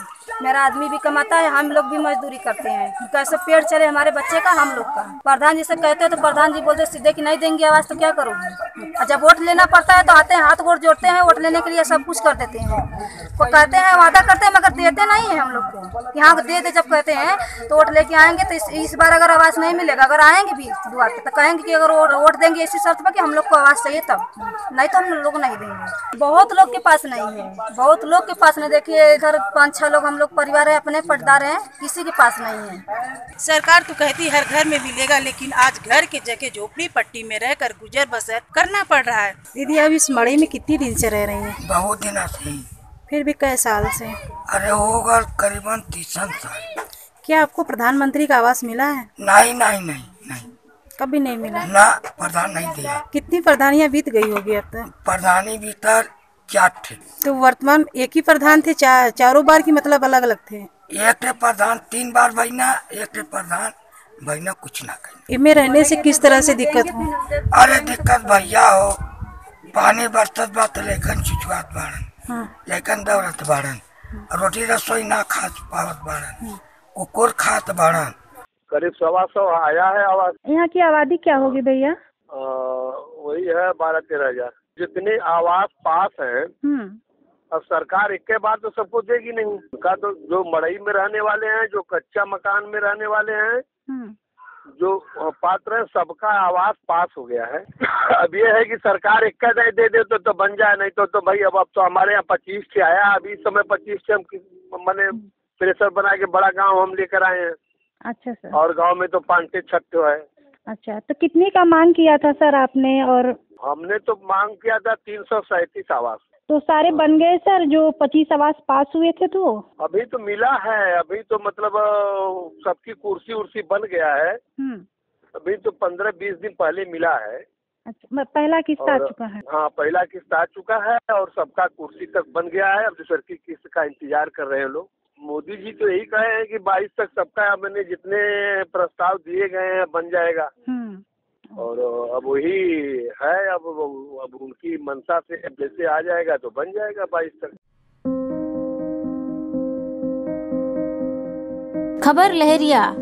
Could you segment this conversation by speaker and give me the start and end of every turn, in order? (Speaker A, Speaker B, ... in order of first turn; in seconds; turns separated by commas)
Speaker A: 0.4-32.8, Speaker B: 33.4-41.6, Speaker C: 41.6-42.6, Speaker B: 43.1-44.2, Speaker C: 44.5-46.7, Speaker B: 47.2-49.1, Speaker C: 49.2-50.5, Speaker B: 51.0-51.6, Speaker C: 51.6-53.0, Speaker B: 53.1-54.9, Speaker C: 54.9-57.0, Speaker B: 57.2-60.7, Speaker C: 60.9-65.2, Speaker B: 65.3-67.1, Speaker A: 66.1-66.7, Speaker C: 67.5-69.0, Speaker C: 69.7-72.0, Speaker C: 72.6-78.1, Speaker D: 78.7-80.3, Speaker E: 80.4-81.9, Speaker D: 82.3-86.5, Speaker E: 86.6-87.0, Speaker D: 87.5-93.6, Speaker E: 93.9-94.2, Speaker D: 94.8-107.6, Speaker E: 108.0-108.6, Speaker D: 108.5-110.2, Speaker E: 110.7-113.4, Speaker D: 113.6-116.2, Speaker E: 116.5-119.6, Speaker D: 119.8-124.4, Speaker E: 124.6-124.8, Speaker D: 125.4-127.4, Speaker E: 127.9-129.4, Speaker D: 128.8-140.5, Speaker E: 140.7-141.0, Speaker D: 141.6-147.5